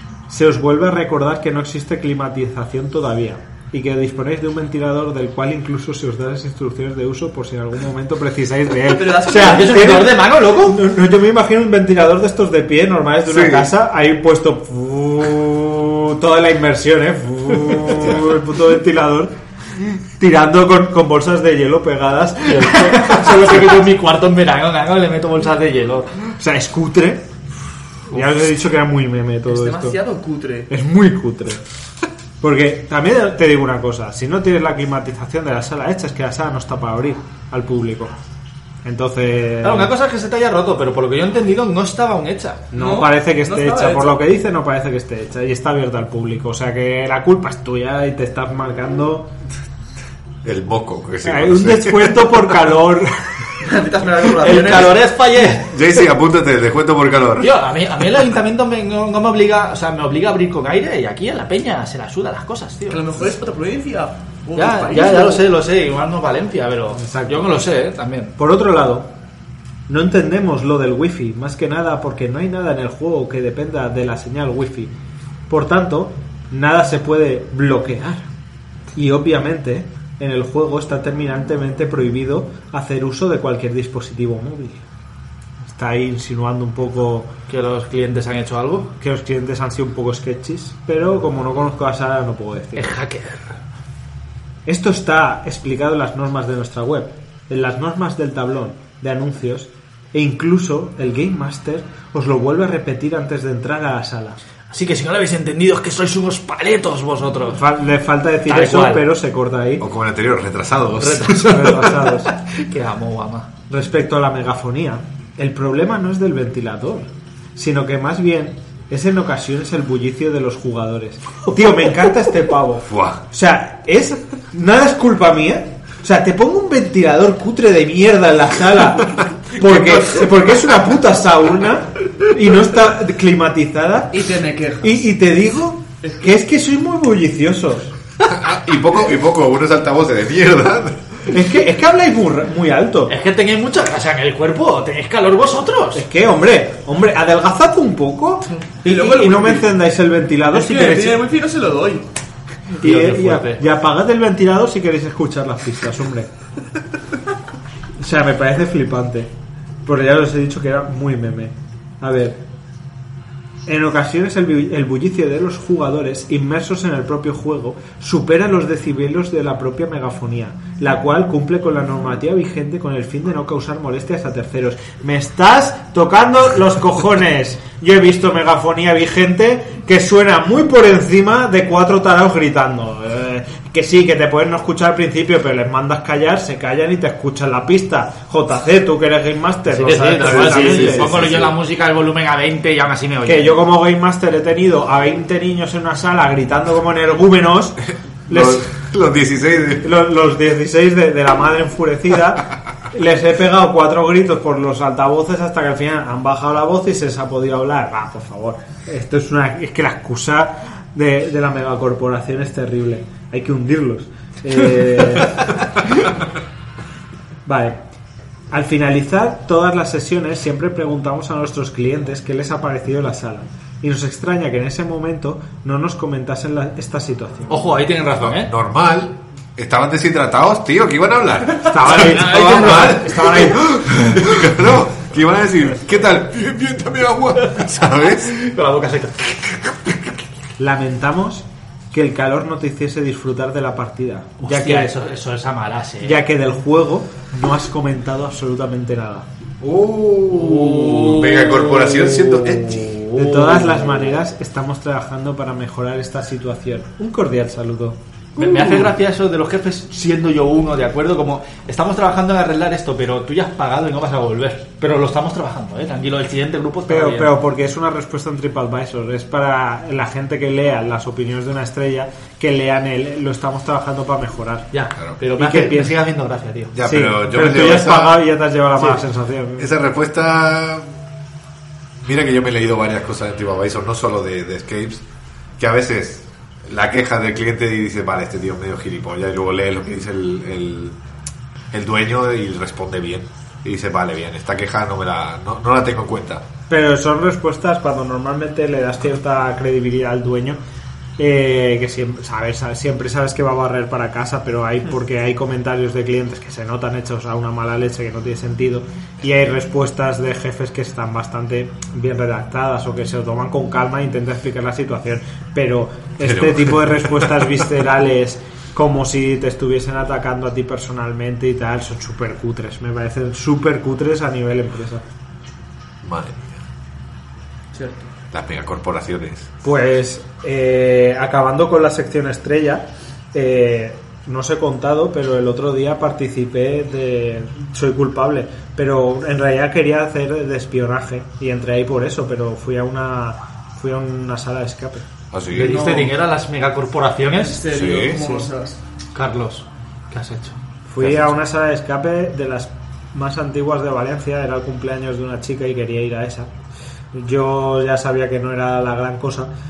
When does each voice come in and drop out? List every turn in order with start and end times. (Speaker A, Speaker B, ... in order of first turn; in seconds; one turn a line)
Speaker A: 0.3-23.8
Speaker B: 8.8-10.1
Speaker C: 9.2-10.8
Speaker D: 13.3-13.7
Speaker C: 22.4-26.1
Speaker A: 26.4-27.3
Speaker A: 28.1-30.0
Speaker B: 29.5-30.7
Speaker A: 30.7-31.6
Speaker A: 32.4-38.1
Speaker A: 38.8-39.9
Speaker C: 39.6-42.6
Speaker A: 42.7-49.3
Speaker B: 42.7-44.2
Speaker D: 50.4-52.3
Speaker A: 51.2-53.5
Speaker B: 53.6-55.0
Speaker C: 54.4-55.8
Speaker D: 55.6-57.5
Speaker C: 57.4-63.0
Speaker B: 62.9-65.4
Speaker C: 64.5-68.3
Speaker A: 67.0-67.5
Speaker A: 68.4-69.1
Speaker A: 69.9-74.9
Speaker A: 75.5-78.3
Speaker A: 78.9-84.8
Speaker A: 85.6-87.3
Speaker C: 87.5-88.9
Speaker A: 89.0-92.9
Speaker C: 92.8-93.5
Speaker A: 94.7-104.4
Speaker C: 104.7-107.6
Speaker A: 107.5-109.8
Speaker C: 108.5-109.0
Speaker D: 109.8-111.7
Speaker C: 111.0-113.5
Speaker A: 111.4-112.3
Speaker A: 113.7-134.2
Speaker D: 122.9-123.2
Speaker B: 134.1-135.0
Speaker A: 134.8-137.9
Speaker D: 138.2-141.2
Speaker A: 141.3-143.1
Speaker C: 143.1-146.0
Speaker A: 145.9-151.2
Speaker B: 148.8-149.7
Speaker B: 150.5-152.1
Speaker C: 152.8-153.6
Speaker A: 152.8-156.3
Speaker A: 158.0-159.3
Speaker A: 159.8-162.4
Speaker A: 163.7-191.2
Speaker C: 189.7-193.6
Speaker D: 190.2-191.5
Speaker A: 193.2-198.7
Speaker D: 198.3-199.9
Speaker A: 199.8-215.5
Speaker A: 217.4-217.8
Speaker A: 218.5-227.7
Speaker C: 227.5-228.5
Speaker D: 228.2-238.3
Speaker A: 231.6-234.2
Speaker C: 231.8-233.5
Speaker C: 238.2-240.0
Speaker A: 240.6-244.9
Speaker C: 244.4-246.2
Speaker A: 246.0-249.3
Speaker D: 249.6-253.0
Speaker C: 250.3-254.1
Speaker A: 253.1-258.0
Speaker C: 258.4-267.3
Speaker D: 258.4-258.9
Speaker A: 266.9-274.7
Speaker C: 274.7-276.7
Speaker A: 275.4-276.0
Speaker D: 276.7-278.2
Speaker A: 276.8-279.7
Speaker D: 279.6-280.9
Speaker D: 282.0-285.0
Speaker D: 285.6-290.9
Speaker D: 291.7-296.4
Speaker A: 296.7-300.6
Speaker A: 301.2-325.0
Speaker D: 316.2-317.3
Speaker D: 326.0-326.6
Speaker B: 327.7-328.1
Speaker D: 328.3-329.5
Speaker A: 329.6-345.1
Speaker D: 345.3-345.7
Speaker C: 345.5-347.7
Speaker B: 345.6-346.1
Speaker B: 347.3-348.8
Speaker D: 347.7-348.2
Speaker A: 348.2-348.5
Speaker C: 349.1-350.6
Speaker A: 350.9-356.5
Speaker D: 351.0-351.3
Speaker A: 357.1-359.5